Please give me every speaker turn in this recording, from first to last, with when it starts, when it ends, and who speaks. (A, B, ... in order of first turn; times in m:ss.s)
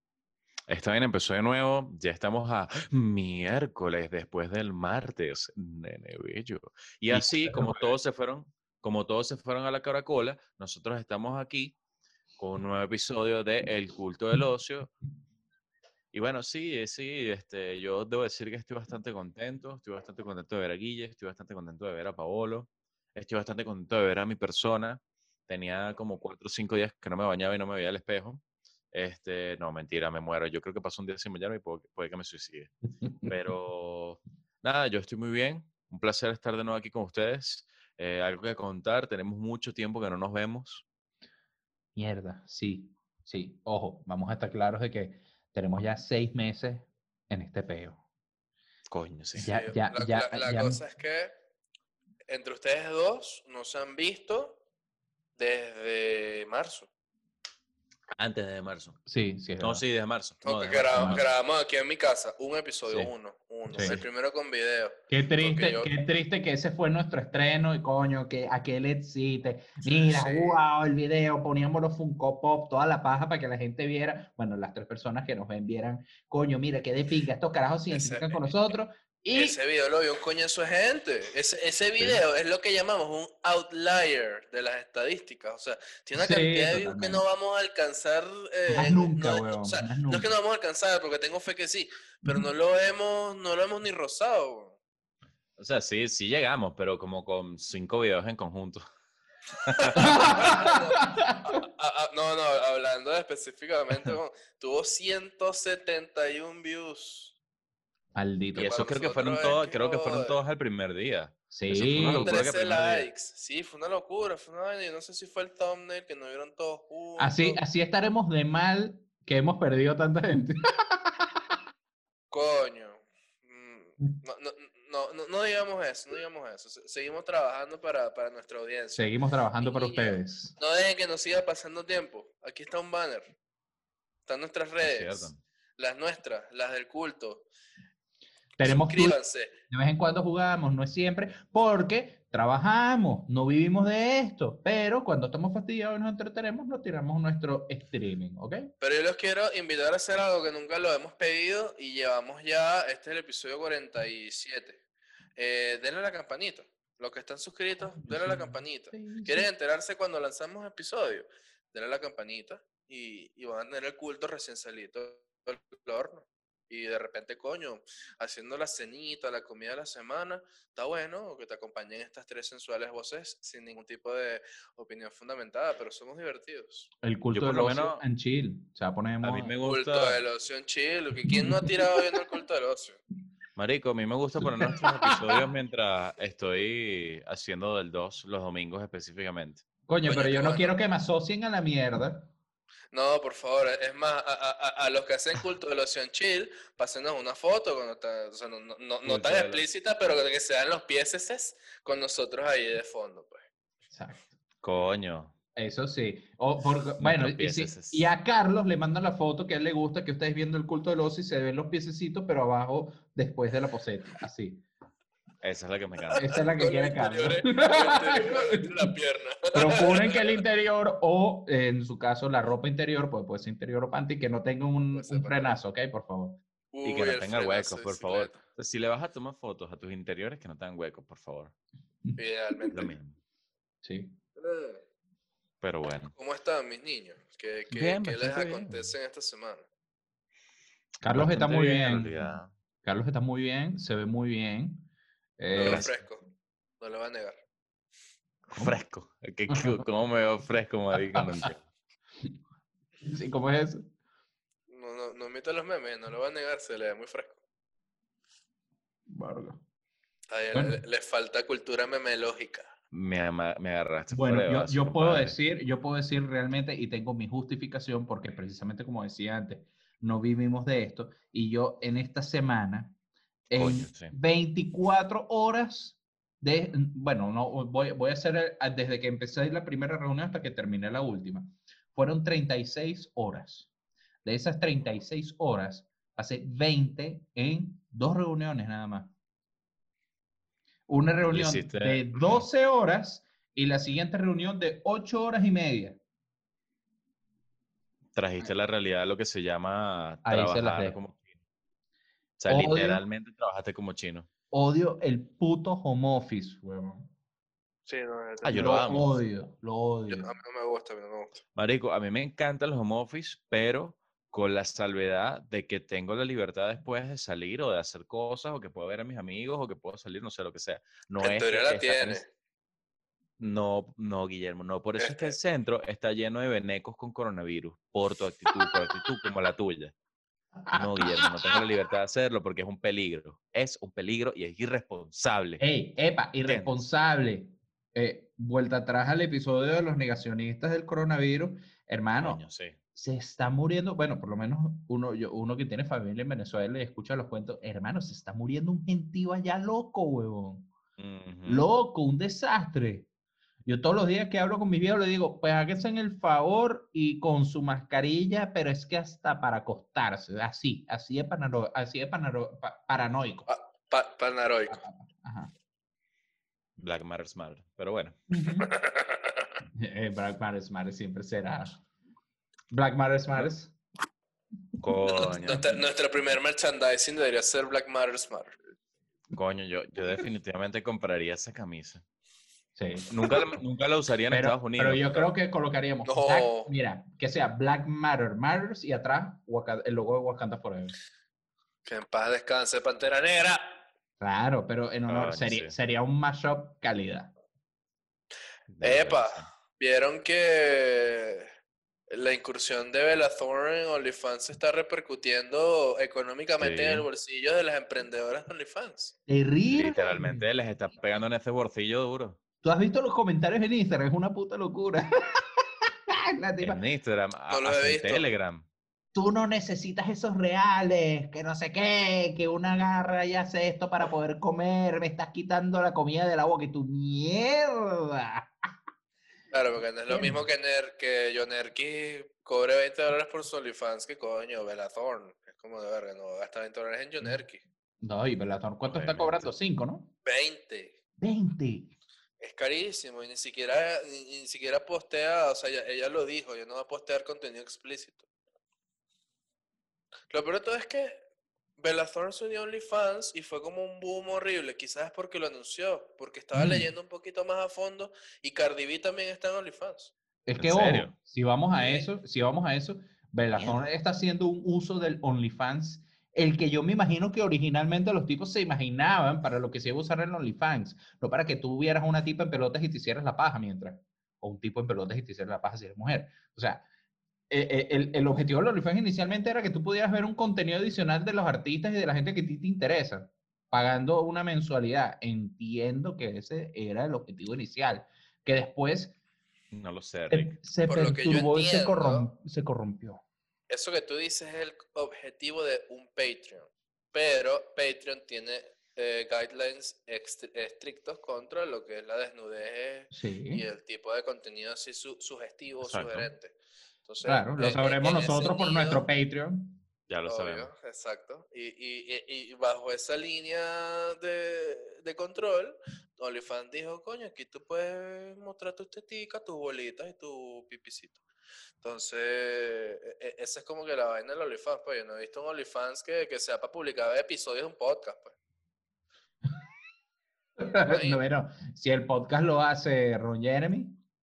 0:00.7-0:11.8 A
0:07.1-0:08.0 B
0:12.4-0:14.9 A
0:16.1-0:32.7 A
0:33.2-0:40.8 A
0:42.0-0:48.0 B
0:48.9-0:49.5 A
0:49.4-0:50.8 B
0:49.4-0:51.3 C
0:52.3-0:54.6 C
0:55.4-0:56.9 C
0:58.2-0:59.0 A
0:59.1-0:59.8 B
0:59.6-1:01.3 A
1:00.4-1:05.9 C
1:00.9-1:01.2 B
1:03.7-1:04.0 B
1:05.1-1:19.6 B
1:09.8-1:10.6 C
1:17.9-1:18.6 C
1:19.3-1:34.8 C
1:26.2-1:27.2 B
1:28.7-1:30.3 B
1:35.6-1:38.8 A
1:39.7-1:40.2 A
1:39.8-1:47.4 C
1:40.0-1:41.4 B
1:48.2-1:48.8 B
1:48.6-1:53.1 A
1:48.6-1:50.4 C
1:51.5-1:52.4 B
1:52.2-1:57.6 C
1:57.2-2:01.4 B
2:02.3-2:09.1 C
2:09.0-2:10.6 B
2:09.6-2:13.3 C
2:14.3-2:17.5 C
2:14.8-2:15.4 A
2:18.6-2:19.2 B
2:18.6-2:19.5 C
2:19.7-2:28.7 B
2:28.8-2:34.8 C
2:35.4-2:56.9 C
2:37.9-2:39.5 B
2:57.0-2:59.5 B
2:57.3-2:58.0 A
2:59.2-3:00.2 A
2:59.7-3:03.0 C
3:01.3-3:02.2 B
3:03.6-3:09.6 A
3:04.5-3:05.5 B
3:09.9-3:12.3 B
3:10.0-3:10.8 C
3:12.9-3:23.4 C
3:19.0-3:19.6 A
3:23.9-3:24.3 B
3:24.6-3:25.3 A
3:25.6-3:34.6 B
3:27.0-3:28.1 A
3:35.4-3:36.3 A
3:36.1-3:40.4 C
3:36.1-3:38.7 B
3:39.5-3:46.4 B
3:44.9-3:45.5 C
3:46.7-3:48.4 C
3:46.8-3:51.5 A
3:52.0-3:52.8 B
3:52.2-3:52.9 C
3:52.7-3:53.2 A
3:53.8-3:54.2 B
3:54.4-3:54.8 C
3:55.6-3:56.1 A
3:56.1-3:59.7 C
3:57.7-3:58.8 A
4:01.0-4:04.9 B
4:01.0-4:02.5 A
4:05.4-4:05.9 B
4:05.5-4:06.3 C
4:05.6-4:06.0 A
4:06.8-4:07.4 C
4:08.5-4:11.6 A
4:09.5-4:09.8 B
4:11.0-4:11.5 B
4:13.0-4:13.9 B
4:14.7-4:17.4 C
4:19.1-4:19.6 B
4:20.3-4:22.7 C
4:20.5-4:20.8 B
4:22.9-4:25.4 A
4:24.1-4:33.0 B
4:33.5-4:43.7 B
4:33.6-4:34.1 A
4:44.2-4:49.1 B
4:50.9-4:56.0 B
4:51.3-4:52.4 A
4:58.2-5:01.3 A
5:00.2-5:01.0 B
5:02.4-5:04.3 A
5:02.5-5:03.0 B
5:04.5-5:07.1 B
5:07.9-5:08.7 C
5:08.4-5:09.2 A
5:08.5-5:10.3 B
5:10.1-5:11.4 C
5:11.6-5:22.2 A
5:21.2-5:22.3 C
5:23.4-5:29.9 A
5:25.0-5:25.4 C
5:30.6-5:31.7 B
5:30.7-5:35.6 A
5:35.6-5:42.4 B
5:36.4-5:36.8 A
5:42.2-5:42.8 A
5:43.0-5:50.7 B
5:51.0-5:51.7 A
5:51.5-5:53.1 B
5:53.6-6:03.5 B
6:03.5-6:04.8 C
6:04.7-6:05.5 B
6:06.8-6:08.2 A
6:08.3-6:08.7 B
6:08.7-6:09.2 C
6:09.8-6:11.8 B
6:12.7-6:13.7 B
6:14.8-6:15.8 A
6:15.0-6:18.6 C
6:19.3-6:22.0 A
6:22.8-6:23.6 B
6:23.1-6:25.3 A
6:24.3-6:31.0 B
6:26.0-6:26.7 C
6:31.9-6:33.8 C
6:34.2-6:37.3 B
6:35.1-6:35.7 A
6:38.7-6:39.5 A
6:38.8-6:41.5 C
6:42.1-6:49.2 C
6:46.6-6:47.1 A
6:49.3-6:50.4 B
6:49.7-6:52.4 A
6:52.6-6:56.8 B
6:56.6-6:58.6 A
6:57.5-6:58.3 C
6:59.1-7:08.5 B
7:09.5-7:17.6 C
7:10.1-7:10.4 B
7:18.0-7:20.1 B
7:18.8-7:19.5 A
7:20.2-7:21.0 C
7:21.2-7:21.9 B
7:22.4-7:28.3 C
7:30.3-7:31.2 C
7:31.8-7:40.1 C
7:36.6-7:36.9 B
7:40.5-7:56.8 B
7:40.6-7:41.1 A
7:41.7-7:42.1 C
7:43.5-7:43.8 A
7:57.5-8:09.2 B
8:09.7-8:10.6 A
8:10.3-8:13.2 B
8:10.9-8:12.3 C
8:13.7-8:29.1 C
8:23.1-8:23.6 B
8:25.8-8:26.3 A
8:27.2-8:29.8 B
8:30.1-8:30.7 A
8:30.3-8:41.2 C
8:41.8-8:48.4 C
8:50.6-8:54.0 B
8:50.8-8:51.2 C